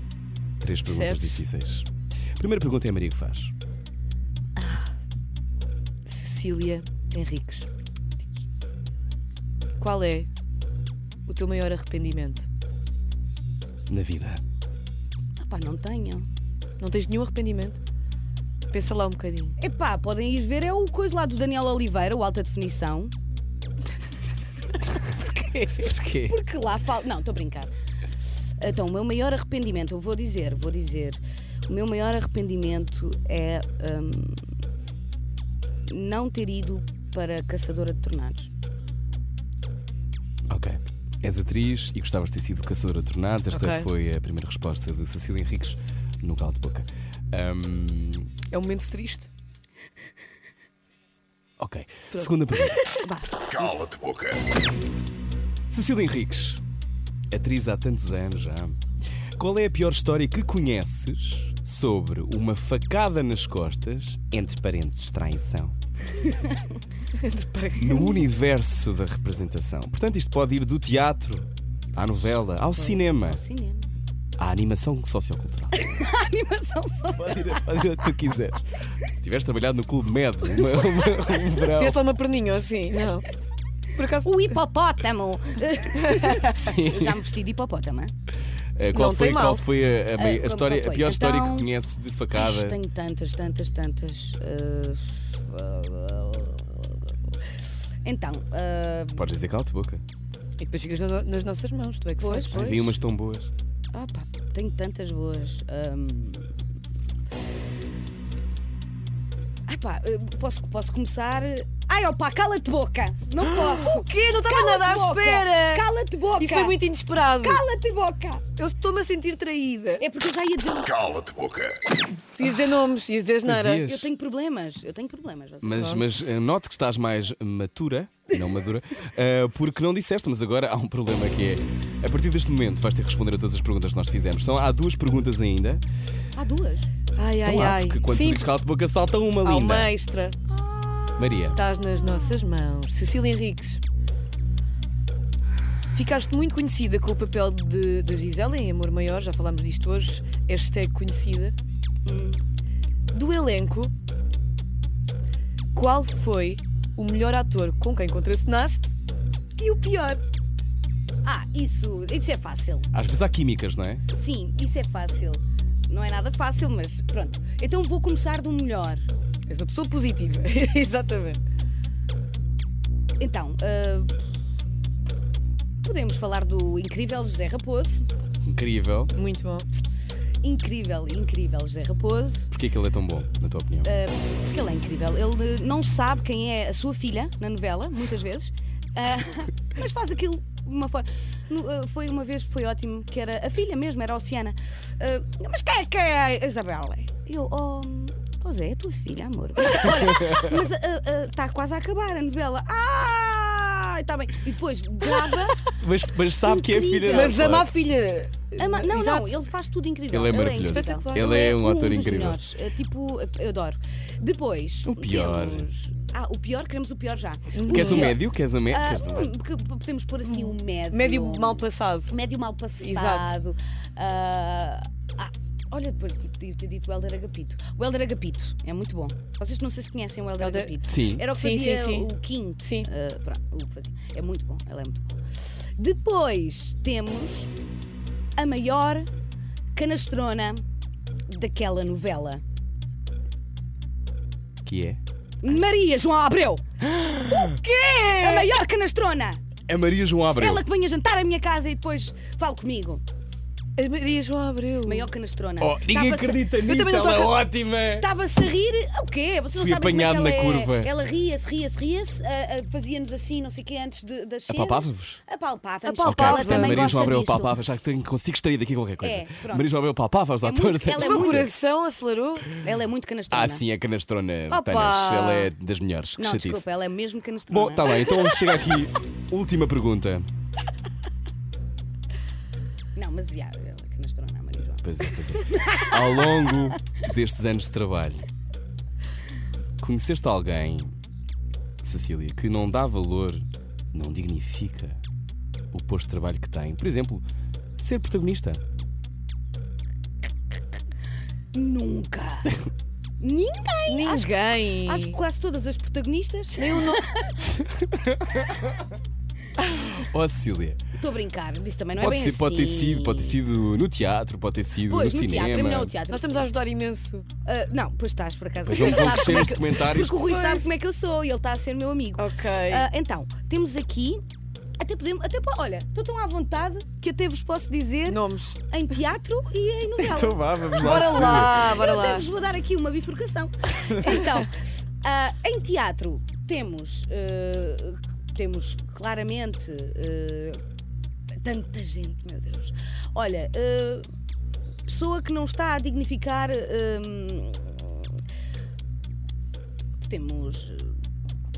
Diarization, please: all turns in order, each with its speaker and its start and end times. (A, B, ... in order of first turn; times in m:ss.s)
0:00.6-0:03.5 A
0:00.8-0:01.4 B
0:04.6-0:04.9 B
0:06.0-0:07.7 B
0:09.8-0:10.3 B
0:11.3-0:12.5 B
0:13.9-0:14.4 A
0:15.4-0:16.3 C
0:16.8-0:17.8 B
0:18.7-0:19.5 B
0:19.6-0:23.1 C
0:25.3-0:26.3 A
0:26.2-0:27.7 C
0:28.3-0:34.4 C
0:35.8-0:38.5 C
0:40.5-0:48.4 A
0:43.5-0:43.9 B
0:48.5-0:49.3 B
0:51.6-0:52.8 A
0:52.1-0:53.7 B
0:55.7-0:56.6 A
0:57.3-0:58.8 A
0:59.4-1:05.7 A
1:06.2-1:06.6 C
1:07.2-1:08.3 B
1:07.8-1:13.4 A
1:12.8-1:13.9 C
1:14.4-1:15.7 A
1:15.7-1:17.5 C
1:17.2-1:22.0 A
1:21.7-1:23.3 B
1:23.9-1:24.4 B
1:24.2-1:28.1 C
1:26.3-1:27.2 A
1:28.8-1:32.8 A
1:28.9-1:29.7 B
1:30.1-1:31.7 C
1:32.3-1:37.1 C
1:38.0-1:39.3 C
1:39.2-1:40.0 A
1:40.6-1:42.9 B
1:42.2-1:42.7 C
1:42.5-1:43.5 A
1:43.9-1:46.5 C
1:49.7-1:58.4 C
1:53.4-1:57.6 B
1:58.6-2:00.0 B
2:00.0-2:01.7 C
2:02.4-2:03.9 B
2:03.4-2:04.1 A
2:03.8-2:06.0 C
2:05.6-2:15.8 A
2:05.7-2:06.1 B
2:16.4-2:16.9 C
2:17.2-2:18.5 B
2:17.4-2:19.9 A
2:19.4-2:20.4 B
2:20.6-2:22.5 C
2:21.2-2:21.6 A
2:21.5-2:23.8 B
2:25.9-2:31.5 B
2:32.0-2:32.4 C
2:33.1-2:33.9 B
2:35.7-2:38.9 B
2:39.6-2:40.2 B
2:41.2-2:42.9 C
2:42.9-2:44.0 A
2:44.1-2:49.0 C
2:49.5-2:51.4 B
2:53.2-2:54.1 C
2:55.8-2:58.1 C
2:58.4-2:59.1 A
2:59.1-2:59.6 B
3:00.4-3:02.5 C
3:02.5-3:03.9 A
3:03.8-3:25.7 C
3:20.1-3:20.6 A
3:25.8-3:27.7 A
3:26.4-3:27.6 C
3:27.1-3:29.4 B
3:28.6-3:57.5 C
3:30.1-3:32.4 A
3:30.3-3:31.4 B
3:34.8-3:35.7 A
3:37.5-3:38.2 B
3:37.7-3:39.3 A
3:40.2-3:42.1 B
3:42.8-3:43.4 B
3:50.4-3:50.8 B
3:50.8-3:51.2 A
3:51.3-3:52.1 B
3:52.6-3:52.9 B
3:58.4-3:59.1 C
3:59.7-4:00.6 C
4:01.3-4:02.4 C
4:04.6-4:05.0 A
4:05.4-4:06.6 C
4:06.8-4:07.6 A
4:07.3-4:08.6 B
4:08.2-4:09.4 C
4:09.7-4:10.6 A
4:10.3-4:13.0 C
4:13.8-4:15.1 B
4:14.8-4:16.5 C
4:15.6-4:18.1 A
4:16.6-4:17.4 B
4:17.9-4:27.5 C
4:19.5-4:20.9 A
4:24.5-4:25.2 A
4:25.8-4:27.0 B
4:26.0-4:31.5 A
4:29.0-4:29.8 C
4:30.4-4:31.5 C
4:31.0-4:32.5 B
4:32.6-4:33.6 C
4:33.3-4:36.7 A
4:34.5-4:35.5 B
4:36.2-4:38.2 C
4:37.5-4:40.3 A
4:42.9-4:46.7 C
4:44.8-4:48.3 A
4:49.8-4:51.0 A
4:51.8-4:55.0 A
4:55.7-4:57.2 A
4:57.8-4:58.6 A
5:01.5-5:02.5 C
5:03.2-5:07.3 C
5:03.9-5:05.2 B
5:06.6-5:07.1 B
5:07.6-5:08.8 A
5:09.6-5:10.8 A
5:11.0-5:13.4 C
5:12.0-5:15.9 A
5:14.8-5:16.5 C
5:16.1-5:17.2 B
5:17.4-5:24.2 C
5:18.6-5:20.3 A
5:18.7-5:19.5 B
5:20.2-5:20.7 B
5:22.2-5:22.9 B
5:24.8-5:40.6 C
5:28.0-5:28.6 B
5:30.0-5:31.7 A
5:30.7-5:32.3 B
5:41.4-5:44.0 C
5:44.8-5:48.1 C
5:50.0-5:51.0 C